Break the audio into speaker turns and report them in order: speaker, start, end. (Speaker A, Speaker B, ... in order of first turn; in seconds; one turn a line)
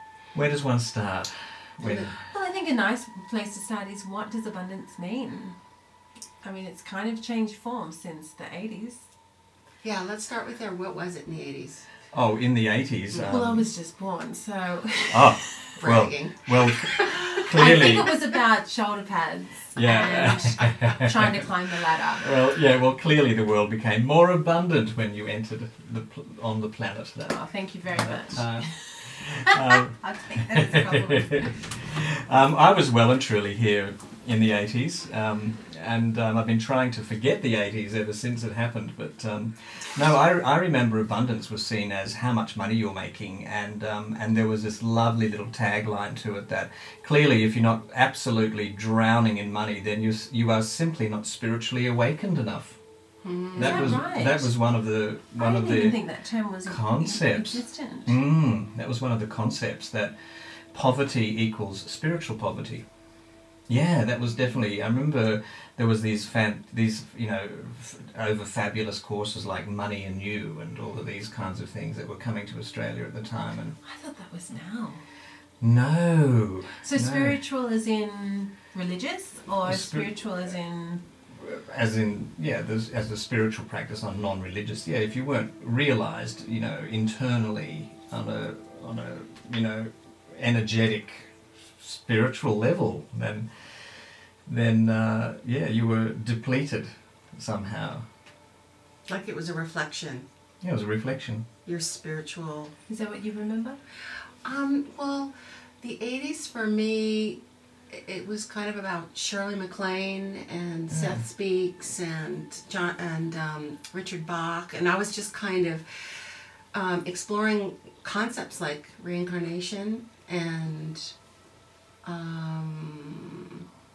Speaker A: 0.3-2.2
Speaker B: 1.8-2.1
Speaker C: 2.3-5.6
Speaker C: 6.4-9.1
Speaker B: 9.8-11.9
Speaker A: 12.1-13.7
Speaker C: 13.1-15.7
Speaker A: 15.1-18.1
Speaker B: 15.8-17.7
Speaker C: 17.1-22.6
Speaker A: 19.7-21.0
Speaker A: 22.2-30.0
Speaker C: 27.3-31.7
Speaker A: 30.5-52.8
Speaker B: 53.2-54.0
Speaker A: 53.5-56.1
Speaker C: 53.5-54.6
Speaker C: 55.3-58.2
Speaker A: 56.6-62.8
Speaker A: 63.7-73.8
Speaker C: 73.8-75.0
Speaker A: 75.6-77.4
Speaker C: 76.8-81.0
Speaker A: 79.6-80.2
Speaker A: 81.3-98.0
Speaker B: 99.1-100.2
Speaker A: 100.6-101.4
Speaker B: 101.6-102.7
Speaker C: 102.9-103.8
Speaker B: 104.4-115.8
Speaker A: 110.9-111.2
Speaker B: 116.7-121.1
Speaker B: 122.0-123.6